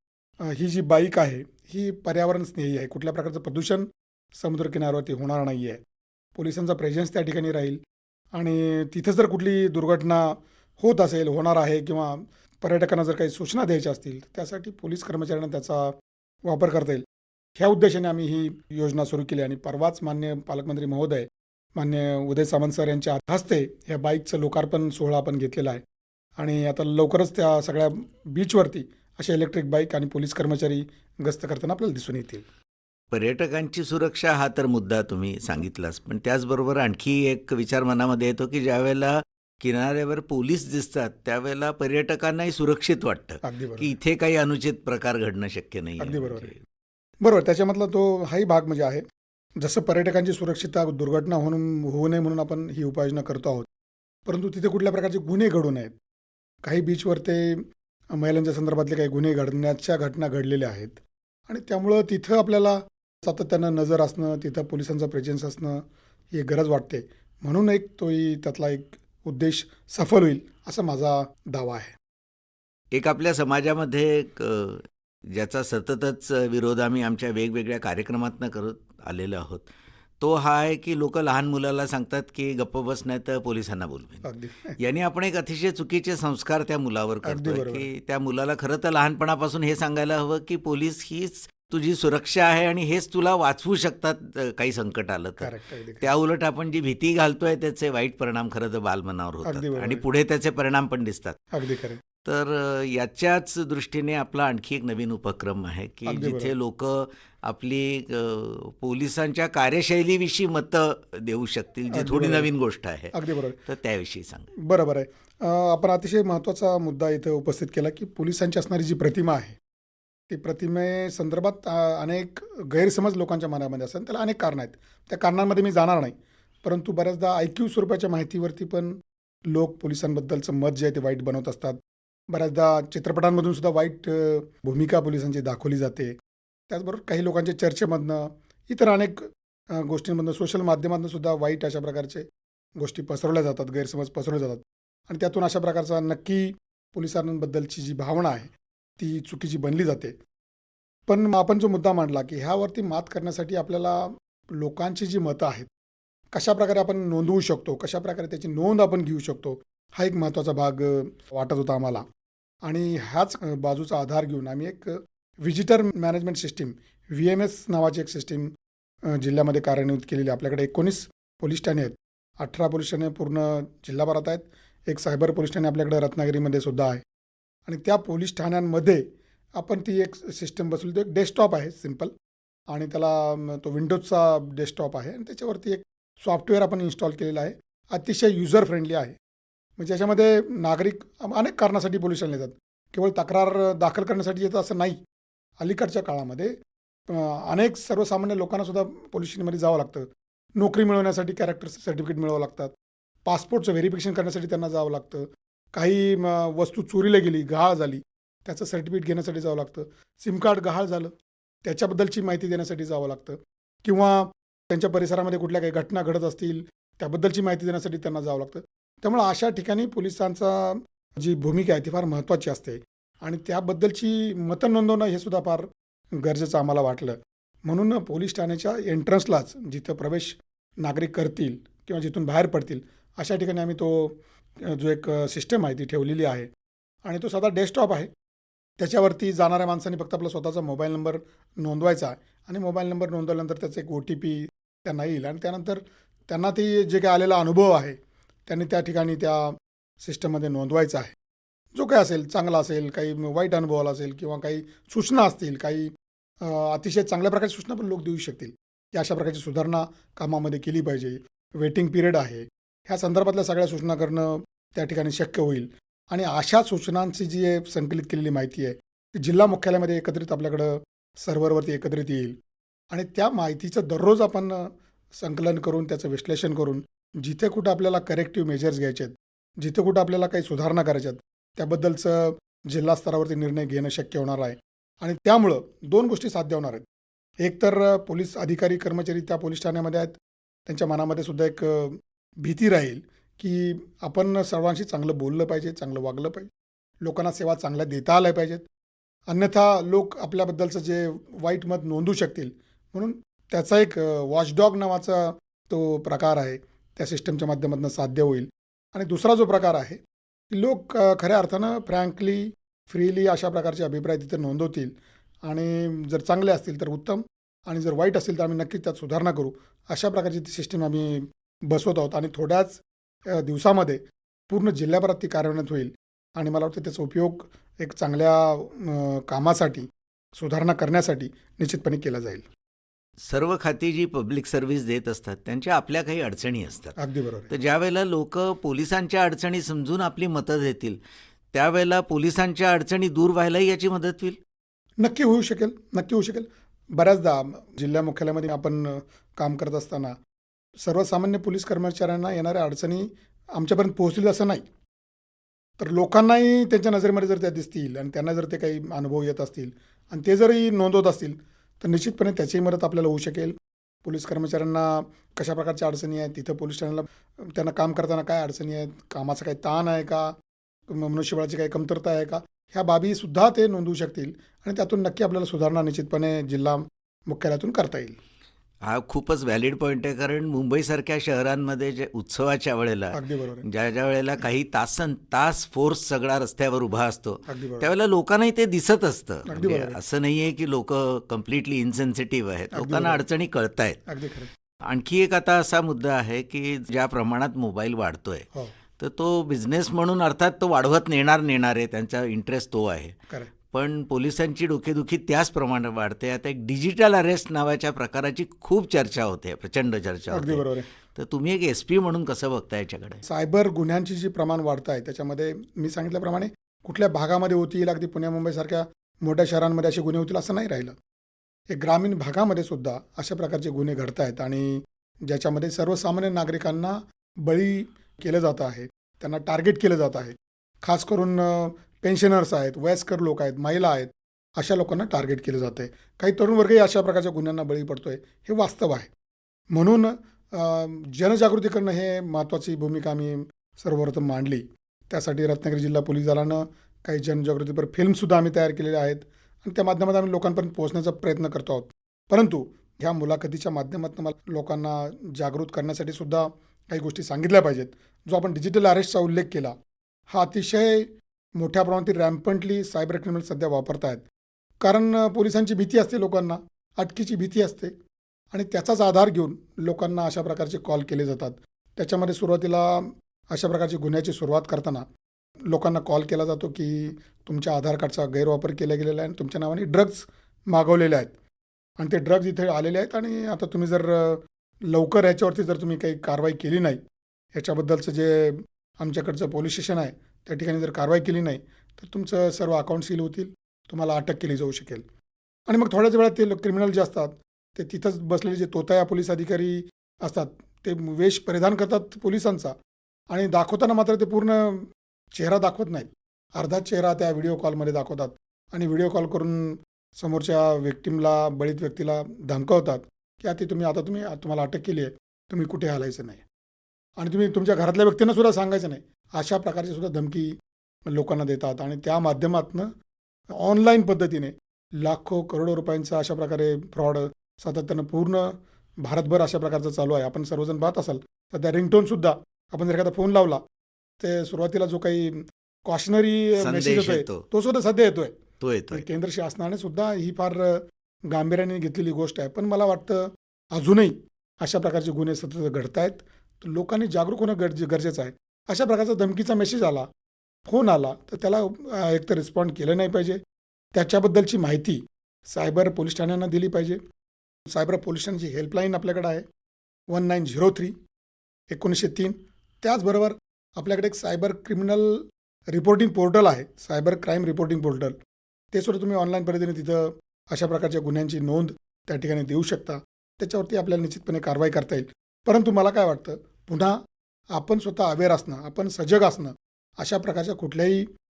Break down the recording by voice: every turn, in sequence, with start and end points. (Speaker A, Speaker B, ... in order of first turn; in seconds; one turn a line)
Speaker A: 0.4-5.8
Speaker A: 6.4-7.8
Speaker A: 8.3-15.9
Speaker A: 16.5-17.1
Speaker A: 17.6-25.8
Speaker A: 26.4-32.4
Speaker B: 33.1-46.6
Speaker A: 43.4-44.0
Speaker A: 46.0-46.6
Speaker A: 47.2-49.0
Speaker A: 49.6-53.7
Speaker A: 54.3-56.0
Speaker A: 56.6-57.6
Speaker A: 58.1-61.0
Speaker A: 61.5-72.0
Speaker B: 72.9-79.7
Speaker B: 80.2-84.2
Speaker A: 84.2-84.8
Speaker B: 84.8-101.5
Speaker A: 87.2-87.9
Speaker A: 95.4-96.1
Speaker A: 99.5-100.0
Speaker A: 101.5-102.0
Speaker B: 102.2-113.2
Speaker A: 106.1-106.5
Speaker A: 111.9-112.5
Speaker A: 113.1-113.6
Speaker B: 113.7-114.5
Speaker A: 114.6-119.6
Speaker A: 120.3-128.9
Speaker A: 129.5-131.8
Speaker A: 132.3-136.1
Speaker A: 136.7-142.2
Speaker A: 142.8-150.2
Speaker A: 151.1-155.7
Speaker A: 156.3-162.0
Speaker A: 162.6-168.5
Speaker A: 169.1-177.0
Speaker A: 177.7-179.0
Speaker A: 179.6-182.1
Speaker A: 182.7-189.2
Speaker A: 189.8-195.0
Speaker A: 195.6-196.5
Speaker A: 197.1-202.7
Speaker A: 203.3-211.1
Speaker A: 211.7-225.7
Speaker A: 226.2-236.5
Speaker A: 237.1-238.1
Speaker A: 238.8-251.1
Speaker A: 251.8-255.9
Speaker A: 256.4-272.4
Speaker A: 272.9-286.8
Speaker A: 287.4-290.1
Speaker A: 290.7-296.5
Speaker A: 297.0-298.6
Speaker A: 299.3-310.0
Speaker A: 310.5-332.4
Speaker B: 333.2-336.9
Speaker A: 337.0-337.5
Speaker B: 337.5-341.0
Speaker B: 341.5-344.4
Speaker A: 345.0-350.1
Speaker A: 350.8-354.6
Speaker A: 355.8-370.3
Speaker A: 370.9-378.2
Speaker B: 378.8-394.0
Speaker A: 383.1-383.7
Speaker A: 387.5-387.9
Speaker A: 389.5-390.0
Speaker A: 392.7-393.2
Speaker A: 394.1-394.5
Speaker B: 394.9-398.5
Speaker B: 399.0-403.1
Speaker B: 403.7-413.2
Speaker A: 410.3-410.9
Speaker A: 413.2-420.9
Speaker A: 421.7-439.1
Speaker A: 439.7-459.7
Speaker A: 460.3-464.2
Speaker A: 464.8-467.9
Speaker A: 468.5-475.1
Speaker A: 475.7-481.3
Speaker A: 482.0-487.0
Speaker A: 487.6-495.1
Speaker A: 495.7-502.7
Speaker A: 503.3-516.4
Speaker A: 517.2-520.5
Speaker A: 521.1-522.9
Speaker A: 523.6-533.6
Speaker A: 534.2-538.4
Speaker B: 536.6-537.4
Speaker B: 538.6-539.1
Speaker A: 538.9-550.1
Speaker A: 550.7-553.4
Speaker A: 554.0-557.0
Speaker A: 557.7-559.5
Speaker A: 560.1-560.9
Speaker A: 561.7-568.2
Speaker A: 568.7-577.0
Speaker A: 577.5-581.1